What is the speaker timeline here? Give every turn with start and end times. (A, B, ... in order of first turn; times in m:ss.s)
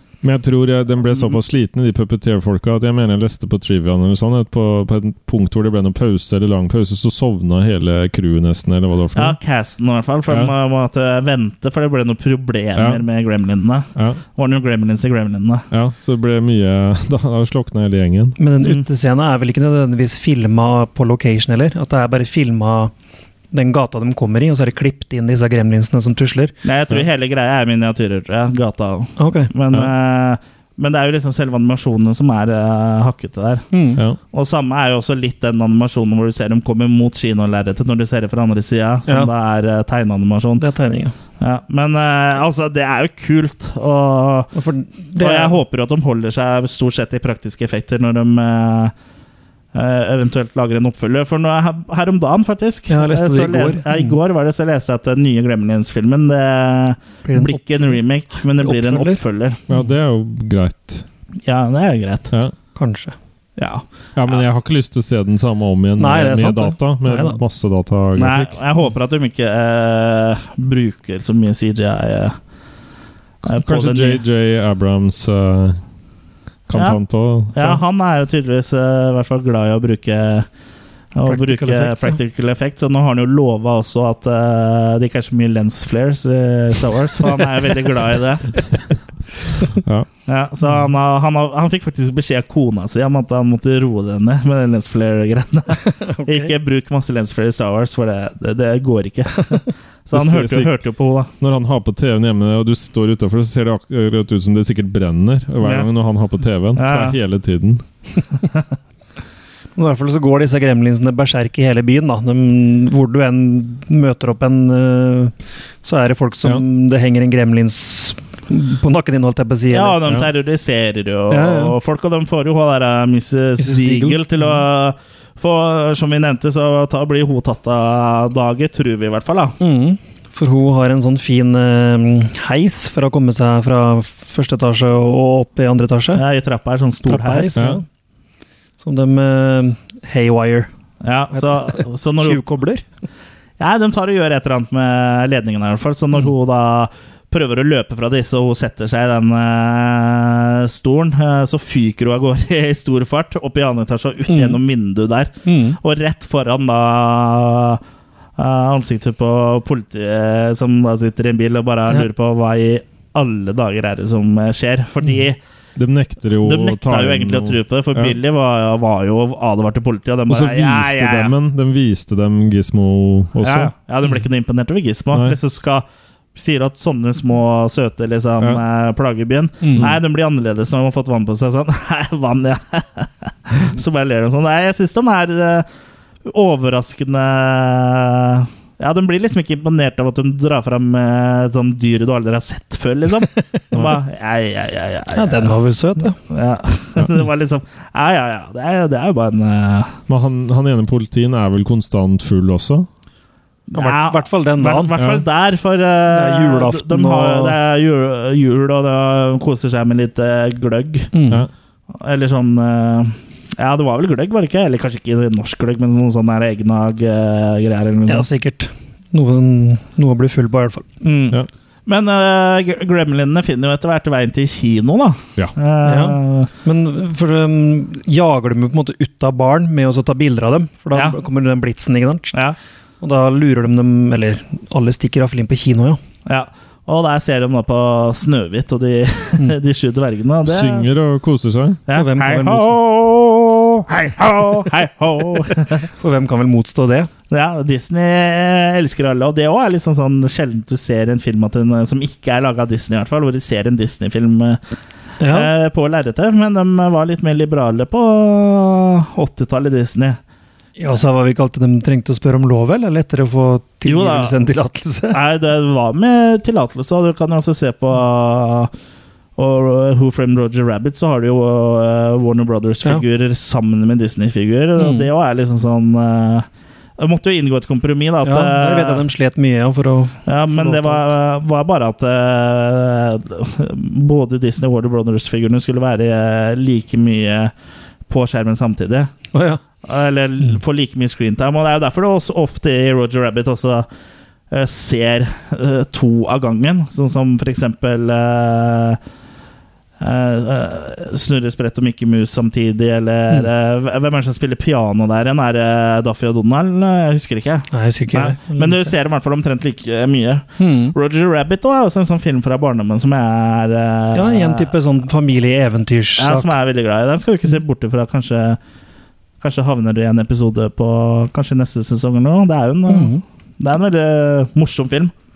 0:00.2-0:09.4 A
0:09.1-0:15.6 B
0:12.8-0:13.0 A
0:14.0-0:14.2 A
0:15.7-0:18.4 A
0:18.4-0:22.9 C
0:23.5-0:26.5 C
0:26.6-0:33.6 B
0:29.2-0:29.5 C
0:33.7-0:34.0 C
0:34.3-0:40.6 B
0:40.6-0:41.1 C
0:41.4-0:44.5 B
0:44.5-0:45.6 C
0:45.2-0:48.9 B
0:49.7-0:59.6 B
0:52.9-0:54.2 C
0:57.2-0:58.0 C
0:58.6-0:59.2 C
0:59.7-1:01.0 A
1:01.4-1:02.3 B
1:02.7-1:03.1 C
1:03.6-1:04.4 B
1:04.2-1:08.5 A
1:06.0-1:07.4 C
1:08.2-1:12.4 B
1:13.4-1:15.8 A
1:13.4-1:14.2 B
1:16.7-1:17.8 A
1:16.7-1:17.0 B
1:17.5-1:20.5 B
1:21.1-1:28.6 B
1:21.2-1:22.2 C
1:29.8-1:30.1 A
1:30.3-1:41.3 B
1:35.8-1:36.5 C
1:40.1-1:40.7 A
1:41.4-1:47.8 A
1:45.6-1:45.9 B
1:46.7-1:47.2 B
1:49.8-2:00.0 C
1:59.7-2:09.6 B
2:01.3-2:01.8 C
2:03.6-2:04.6 C
2:09.6-2:16.2 C
2:16.1-2:17.6 B
2:17.0-2:17.8 C
2:17.6-2:17.8 A
2:18.8-2:20.7 C
2:21.0-2:22.4 B
2:21.3-2:22.8 C
2:23.6-2:37.8 B
2:34.3-2:34.6 C
2:35.4-2:35.8 C
2:38.4-2:45.4 B
2:45.8-2:48.1 A
2:46.4-2:51.3 B
2:50.3-2:53.7 A
2:53.4-3:05.6 B
2:59.6-2:59.9 C
3:06.2-3:15.6 B
3:15.1-3:16.2 C
3:16.3-3:20.0 B
3:20.1-3:22.9 A
3:23.7-3:31.1 B
3:23.7-3:24.9 C
3:25.0-3:25.2 A
3:26.1-3:27.6 C
3:31.1-3:31.4 C
3:32.0-3:38.3 B
3:38.1-3:40.8 C
3:41.0-3:46.5 B
3:45.8-3:52.4 C
3:53.0-3:56.0 C
3:56.2-4:00.8 B
4:00.5-4:01.8 A
4:01.9-4:05.9 B
4:01.9-4:02.7 C
4:06.0-4:07.1 C
4:07.3-4:14.6 B
4:15.2-4:15.5 C
4:15.3-4:20.2 B
4:20.8-4:25.2 C
4:23.8-4:24.3 B
4:25.1-4:28.7 B
4:29.4-4:36.5 B
4:34.8-4:35.1 C
4:37.0-4:39.0 B
4:38.2-4:41.0 C
4:40.2-4:47.5 B
4:48.1-4:49.1 B
4:49.3-4:49.6 C
4:49.8-4:53.9 B
4:54.5-4:59.0 B
5:00.0-5:14.7 B
5:07.7-5:08.9 C
5:10.6-5:10.9 C
5:14.1-5:16.5 C
5:16.2-5:18.6 B
5:19.4-5:25.1 B
5:22.9-5:23.2 C